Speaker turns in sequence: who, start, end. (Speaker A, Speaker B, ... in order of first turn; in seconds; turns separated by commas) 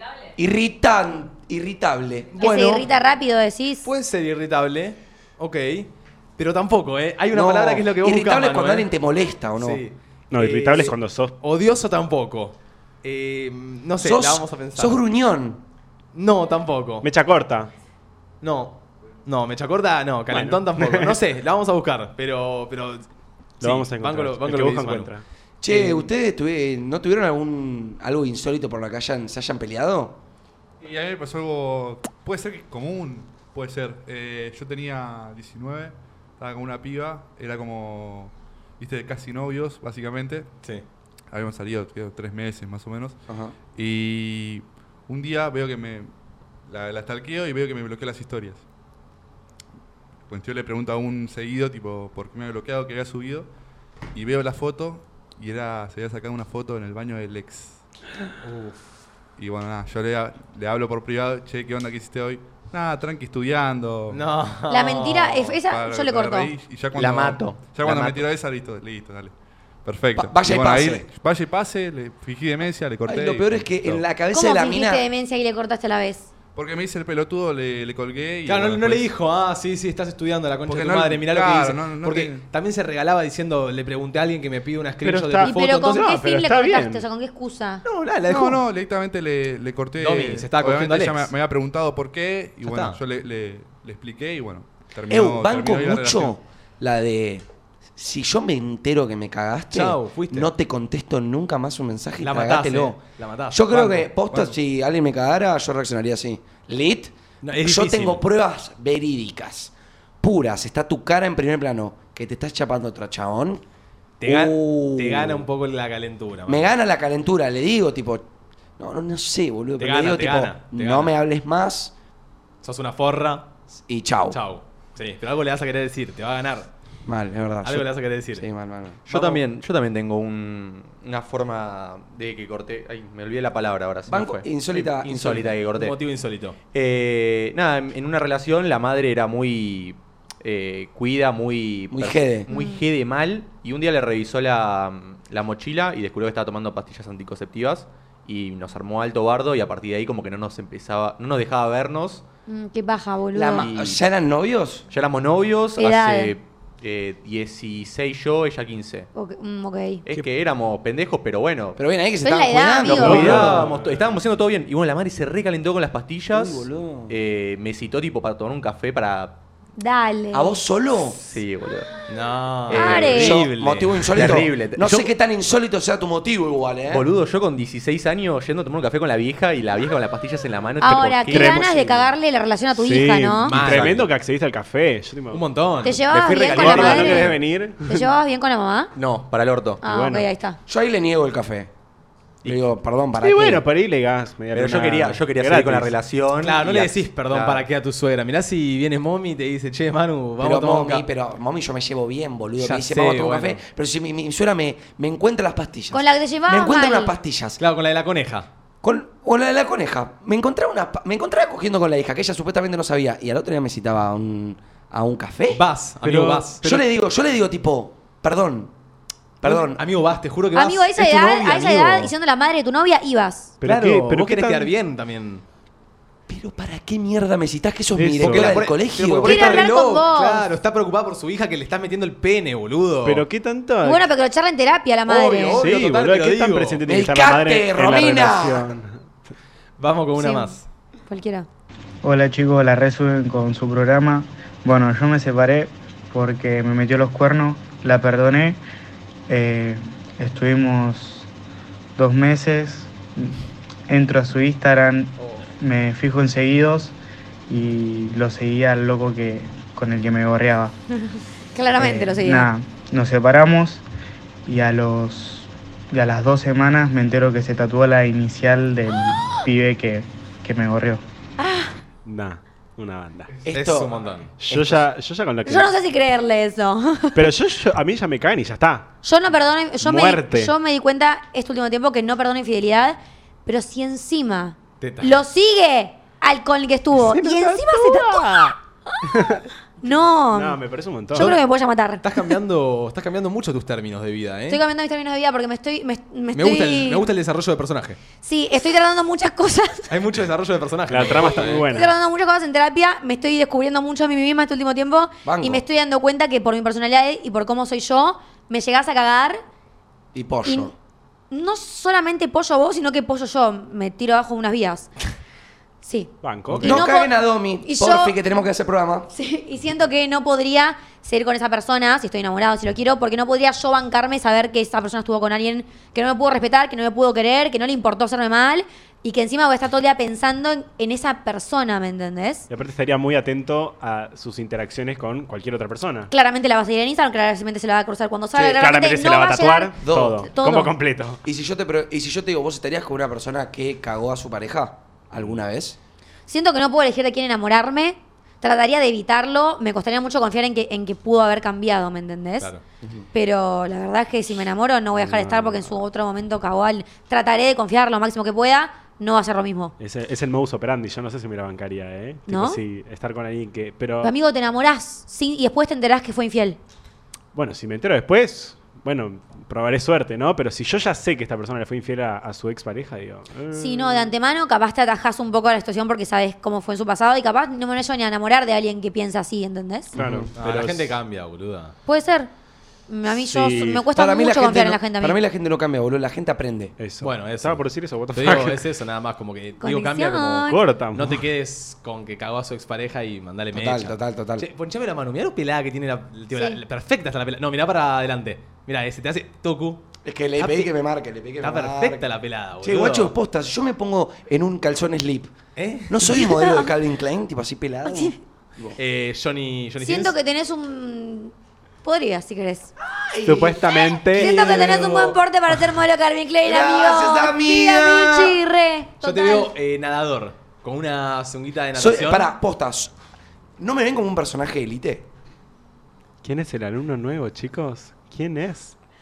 Speaker A: 0.4-2.8, Speaker B: 2.4-2.8, Speaker C: 2.4-3.9, Speaker B: 3.8-8.9, Speaker A: 7.3-9.8, Speaker B: 9.6-15.0, Speaker D: 10.3-11.3, Speaker A: 14.0-15.6, Speaker B: 16.1-17.1, Speaker D: 17.0-17.7, Speaker B: 18.4-23.1, Speaker D: 20.3-21.2, Speaker D: 23.6-25.2, Speaker B: 23.6-25.1, Speaker A: 25.6-30.2, Speaker B: 25.7-26.1, Speaker E: 30.8-40.5, Speaker E: 41.3-43.2, Speaker A: 43.3-43.5, Speaker E: 43.7-46.1, Speaker E: 46.6-48.6, Speaker E: 50.3-53.5, Speaker E: 54.1-57.8, Speaker B: 58.4-58.9, Speaker E: 59.4-64.2, Speaker B: 64.1-65.5, Speaker C: 64.7-66.5, Speaker E: 65.6-69.3, Speaker A: 66.9-68.2, Speaker E: 69.8-74.0, Speaker A: 70.2-71.1, Speaker A: 73.0-75.0, Speaker C: 74.3-76.3, Speaker E: 76.5-79.1, Speaker B: 78.5-86.1, Speaker E: 80.7-82.4, Speaker D: 85.0-87.0, Speaker C: 85.4-87.8, Speaker B: 87.8-88.6, Speaker E: 88.3-96.3, Speaker B: 90.0-91.3, Speaker B: 92.6-93.0, Speaker A: 95.1-97.4, Speaker A: 98.0-103.0, Speaker B: 99.7-100.5, Speaker B: 102.2-104.5, Speaker A: 103.5-113.6, Speaker B: 107.4-108.2, Speaker B: 114.2-116.7, Speaker A: 114.2-115.5, Speaker A: 116.5-118.2, Speaker A: 118.8-121.9, Speaker B: 119.8-121.1, Speaker B: 122.6-123.5, Speaker A: 123.8-124.4, Speaker B: 124.3-126.7, Speaker A: 127.0-129.3, Speaker B: 127.6-128.4, Speaker F: 129.1-135.9, Speaker B: 129.1-129.4, Speaker A: 134.1-135.5, Speaker B: 134.7-136.6, Speaker F: 136.7-152.2, Speaker A: 141.9-142.5, Speaker C: 142.5-142.8, Speaker C: 152.5-153.7, Speaker A: 153.3-154.8, Speaker F: 153.5-154.0, Speaker F: 154.9-159.1, Speaker C: 155.8-156.3, Speaker C: 159.1-160.0, Speaker F: 160.1-161.8, Speaker A: 161.8-163.7, Speaker C: 162.2-163.3, Speaker D: 162.9-163.8, Speaker F: 162.9-169.3, Speaker B: 163.0-164.0, Speaker A: 166.3-167.1, Speaker C: 169.8-170.6, Speaker A: 170.3-171.2, Speaker F: 171.1-172.0, Speaker B: 172.1-174.4, Speaker F: 172.7-173.3, Speaker C: 172.7-173.4, Speaker A: 172.8-177.1, Speaker F: 174.1-175.1, Speaker F: 176.9-181.6, Speaker C: 180.8-183.8, Speaker D: 181.2-182.1, Speaker D: 182.8-185.4, Speaker B: 183.4-184.1, Speaker B: 185.3-187.4, Speaker C: 185.8-188.9, Speaker F: 186.1-186.7, Speaker D: 186.2-188.1, Speaker F: 188.9-189.8, Speaker D: 189.8-190.3, Speaker C: 189.8-190.6, Speaker A: 190.7-191.7, Speaker A: 192.4-193.6, Speaker D: 193.2-195.9, Speaker F: 194.5-197.7, Speaker B: 196.4-201.1, Speaker A: 200.4-207.6, Speaker B: 202.6-203.6, Speaker C: 205.9-207.1, Speaker B: 207.6-208.5, Speaker A: 208.8-215.6, Speaker B: 215.5-216.8, Speaker D: 216.0-216.6, Speaker A: 216.6-218.7, Speaker A: 219.4-219.8, Speaker B: 219.4-222.1, Speaker C: 220.5-223.5, Speaker D: 223.6-224.7, Speaker B: 223.6-225.4, Speaker A: 226.3-229.7, Speaker D: 227.9-228.7, Speaker B: 228.2-233.2, Speaker C: 229.2-230.5, Speaker D: 233.0-234.1, Speaker C: 233.8-235.6, Speaker B: 235.1-236.8, Speaker D: 235.5-239.1, Speaker A: 236.8-238.7, Speaker B: 239.8-240.7, Speaker C: 240.2-240.6, Speaker C: 241.1-241.5, Speaker G: 242.0-248.6, Speaker G: 249.3-251.3, Speaker G: 252.0-256.9, Speaker G: 257.5-260.7, Speaker C: 260.9-262.5, Speaker G: 261.8-263.8, Speaker G: 264.5-271.0, Speaker C: 271.4-271.7, Speaker D: 272.0-273.3, Speaker A: 273.4-273.9, Speaker B: 273.5-274.3, Speaker D: 274.4-275.7, Speaker A: 274.5-274.8, Speaker C: 275.4-277.3, Speaker D: 277.1-278.9, Speaker C: 279.0-289.1, Speaker D: 279.8-280.5, Speaker B: 284.8-285.2, Speaker D: 286.9-288.5, Speaker D: 289.1-289.4, Speaker C: 289.8-290.6, Speaker D: 290.3-291.3, Speaker C: 291.1-292.2, Speaker B: 291.1-291.4, Speaker B: 292.0-294.6, Speaker C: 294.5-297.1, Speaker B: 296.3-298.0, Speaker C: 298.2-299.9, Speaker B: 299.9-301.6, Speaker D: 300.9-301.9, Speaker C: 301.7-309.4, Speaker A: 305.2-305.6, Speaker A: 310.1-310.7, Speaker C: 310.4-310.7, Speaker C: 311.3-314.9, Speaker C: 315.8-316.1, Speaker D: 316.2-316.8, Speaker A: 316.6-319.1, Speaker C: 316.6-317.1, Speaker C: 317.6-318.1, Speaker C: 319.1-332.5, Speaker D: 332.5-336.1, Speaker C: 336.1-340.7, Speaker D: 338.3-341.2, Speaker A: 339.8-340.2, Speaker A: 341.2-345.8, Speaker C: 346.3-352.5, Speaker C: 353.1-359.7, Speaker D: 354.9-355.8, Speaker D: 359.8-364.1, Speaker C: 362.3-362.6, Speaker C: 364.0-366.6, Speaker D: 367.3-374.1, Speaker C: 373.5-379.9, Speaker D: 379.9-381.0, Speaker B: 380.0-381.7, Speaker C: 381.9-382.3, Speaker C: 382.9-385.2, Speaker D: 383.1-383.9, Speaker A: 383.9-386.7, Speaker D: 386.8-388.6, Speaker B: 387.0-399.8, Speaker C: 389.6-390.6, Speaker D: 390.4-391.3, Speaker A: 393.5-394.4, Speaker C: 396.3-396.6, Speaker A: 400.0-402.0, Speaker B: 400.4-400.7, Speaker B: 401.4-403.1, Speaker A: 402.6-405.3, Speaker B: 405.6-406.0, Speaker A: 405.9-408.8, Speaker C: 406.1-406.7, Speaker C: 407.8-408.1, Speaker B: 408.8-410.1, Speaker C: 409.8-411.3, Speaker C: 411.8-412.7, Speaker A: 412.8-415.2, Speaker D: 413.2-414.7, Speaker C: 414.1-419.5, Speaker A: 416.4-418.4, Speaker B: 419.0-422.3, Speaker A: 421.7-422.9, Speaker A: 423.6-425.1, Speaker D: 426.2-428.7